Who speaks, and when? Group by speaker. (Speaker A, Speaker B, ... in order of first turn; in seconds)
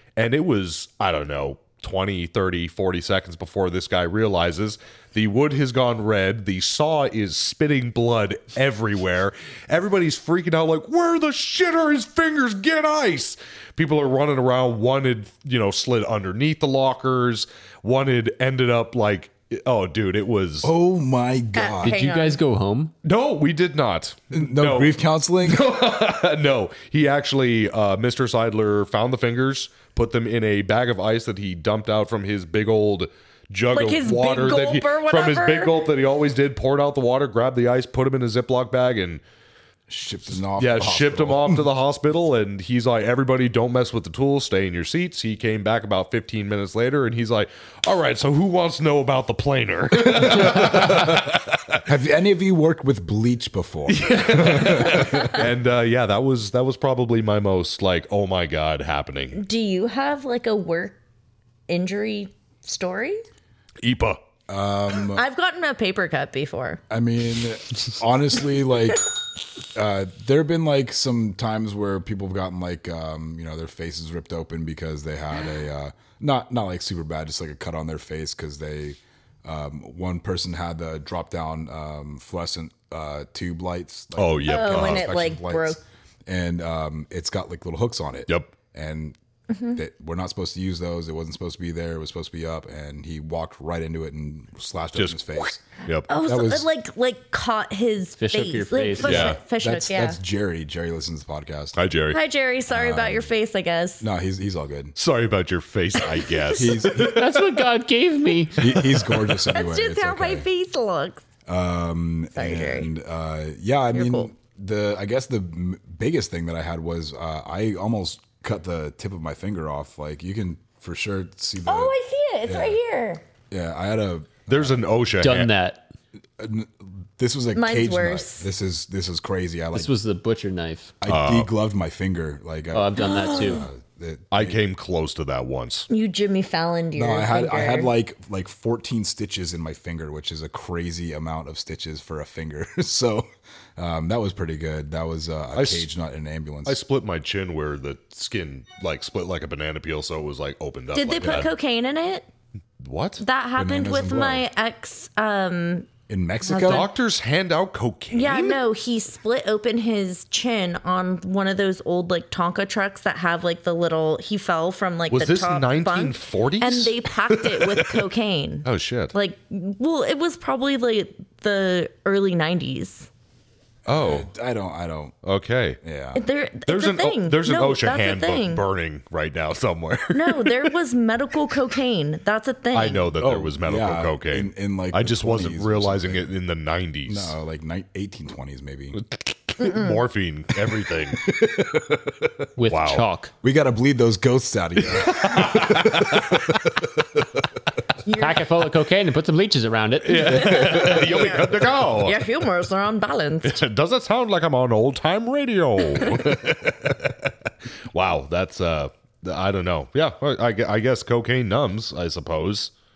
Speaker A: 0.1-20.7, 23.0-39.2, 40.6-51.8, 53.9-59.4, 63.8-64.2, 84.2-85.1, 99.0-99.4, 101.7-102.2, 105.0-107.6, 124.5-125.5, 131.1-131.5, 134.3-135.9, 145.5-145.9, 146.7-151.5, 152.8-153.2, 156.7-158.6, 165.1-168.0, 168.6-169.1, 173.8-174.3, 175.2-175.8, 176.7-180.7, 182.7-187.3, 188.9-191.4, 192.7-193.1, 194.9-196.7, 200.0-202.2, 203.4-207.3, 207.9-212.7
Speaker B: 20.6-22.0, 24.3-25.7, 39.9-41.6, 50.0-51.3, 51.8-55.5, 64.5-65.2, 66.9-69.0, 69.7-89.2, 89.7-96.7, 99.0-101.8, 102.7-103.3, 104.0-104.9, 106.5-107.2, 108.6-110.5, 111.5-121.9, 122.5-122.8, 123.5-124.8, 126.4-129.9, 131.0-134.6, 136.9-143.2, 143.8-146.8, 151.2-151.5, 153.6-154.4, 156.1-156.9, 173.9-175.1, 175.8-176.2, 183.2-186.3, 187.1-189.0, 191.1-192.3, 193.4-196.6
Speaker C: 21.5-22.4, 33.7-35.8, 59.3-61.0, 61.7-63.2, 65.1-66.8, 84.5-85.8, 89.5-89.8, 96.1-100.2, 102.1-104.0, 106.2-106.7, 109.5-111.2, 112.3-112.9, 113.9-114.3, 121.7-123.2, 127.5-128.5, 135.9-137.9, 150.9-152.3, 153.2-155.9, 156.4-156.9, 158.1-173.1, 176.1-178.6, 180.1-183.1, 189.6-190.0, 198.1-198.4, 200.1-203.6
Speaker D: 21.8-22.9, 98.2-99.3, 107.0-109.2, 125.2-125.9, 129.7-130.9, 132.7-133.7, 192.6-193.3, 198.1-201.0